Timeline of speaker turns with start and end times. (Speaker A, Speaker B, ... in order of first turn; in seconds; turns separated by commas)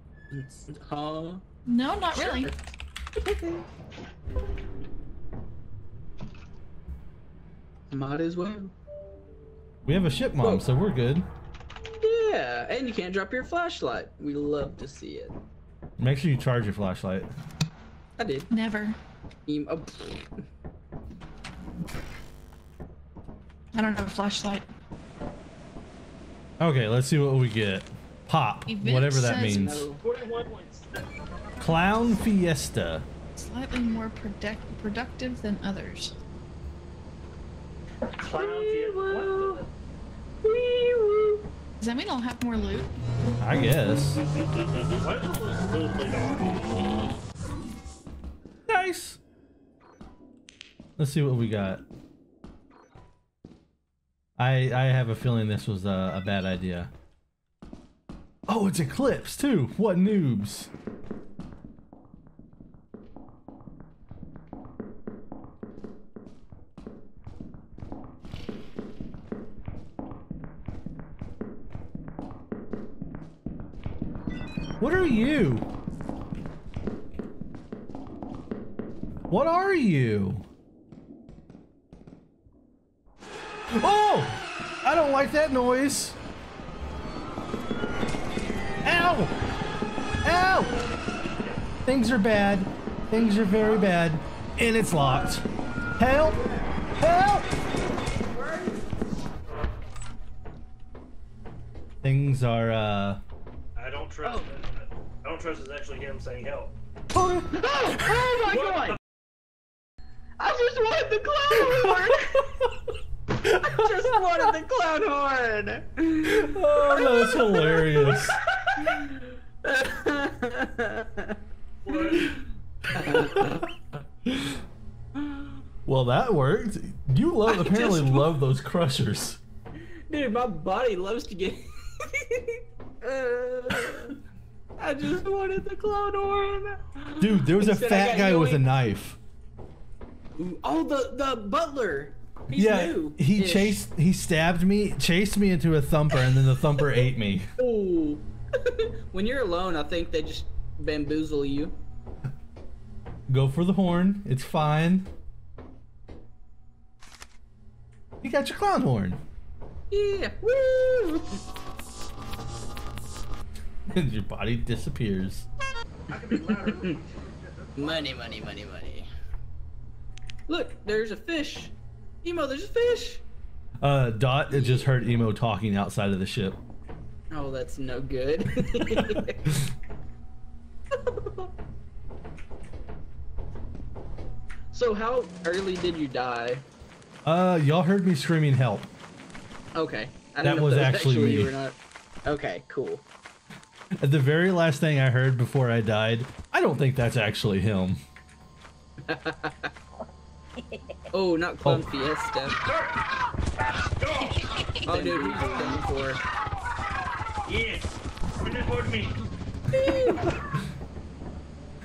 Speaker A: 0.3-1.4, Speaker B: 1.6-2.5, Speaker A: 2.1-2.6, Speaker A: 3.1-3.6, Speaker A: 7.9-8.7, Speaker C: 9.8-11.3, Speaker A: 12.0-15.4, Speaker C: 16.0-17.3, Speaker A: 18.2-18.5, Speaker B: 18.5-19.0, Speaker A: 19.5-20.3, Speaker B: 23.7-24.7, Speaker C: 26.6-29.9, Speaker B: 28.7-29.8, Speaker A: 29.5-30.0, Speaker D: 30.0-31.1, Speaker C: 31.6-33.1, Speaker B: 33.3-36.2, Speaker D: 38.2-39.7, Speaker A: 38.3-39.6, Speaker A: 40.4-41.4, Speaker B: 41.8-42.9, Speaker C: 43.4-44.2, Speaker D: 45.0-46.6, Speaker C: 48.7-49.2, Speaker C: 51.0-51.8, Speaker C: 54.4-56.9, Speaker C: 58.5-60.7, Speaker C: 74.8-75.7, Speaker C: 79.3-80.5, Speaker C: 83.7-86.2, Speaker C: 88.8-89.4, Speaker C: 90.2-90.8, Speaker C: 91.9-95.5, Speaker A: 93.1-93.7, Speaker A: 94.9-95.4, Speaker C: 96.0-96.4, Speaker A: 96.2-96.8, Speaker C: 97.0-97.5, Speaker A: 98.1-98.8, Speaker C: 102.0-103.2, Speaker D: 103.8-106.7, Speaker A: 104.2-104.5, Speaker C: 107.1-107.5, Speaker A: 107.5-109.0, Speaker D: 108.4-109.0, Speaker A: 110.4-112.6, Speaker A: 113.5-121.3, Speaker C: 116.2-118.4, Speaker D: 121.8-122.4, Speaker A: 122.9-123.7, Speaker D: 123.0-123.4, Speaker C: 123.2-123.4, Speaker C: 124.3-124.6, Speaker A: 125.2-125.5, Speaker C: 125.9-129.4, Speaker A: 127.5-128.3, Speaker A: 130.1-134.2, Speaker A: 134.8-138.7, Speaker C: 137.2-139.2, Speaker A: 140.3-143.8, Speaker C: 142.5-147.4, Speaker A: 147.6-151.8, Speaker C: 153.3-155.1, Speaker C: 158.2-159.2, Speaker A: 159.9-161.4, Speaker C: 163.9-165.5, Speaker D: 166.1-168.6, Speaker A: 166.5-166.9, Speaker A: 167.8-169.1, Speaker A: 170.5-173.2, Speaker C: 173.8-176.6, Speaker A: 174.5-174.9, Speaker A: 177.3-179.4, Speaker C: 178.9-179.6, Speaker A: 180.9-181.5, Speaker A: 184.7-186.6, Speaker C: 187.2-188.9, Speaker A: 189.7-193.0, Speaker C: 190.4-191.6, Speaker C: 194.0-198.0, Speaker A: 199.1-199.7, Speaker A: 201.1-202.6, Speaker D: 202.7-203.0, Speaker D: 203.8-205.8, Speaker A: 204.8-206.2, Speaker D: 207.4-209.2, Speaker A: 209.7-210.3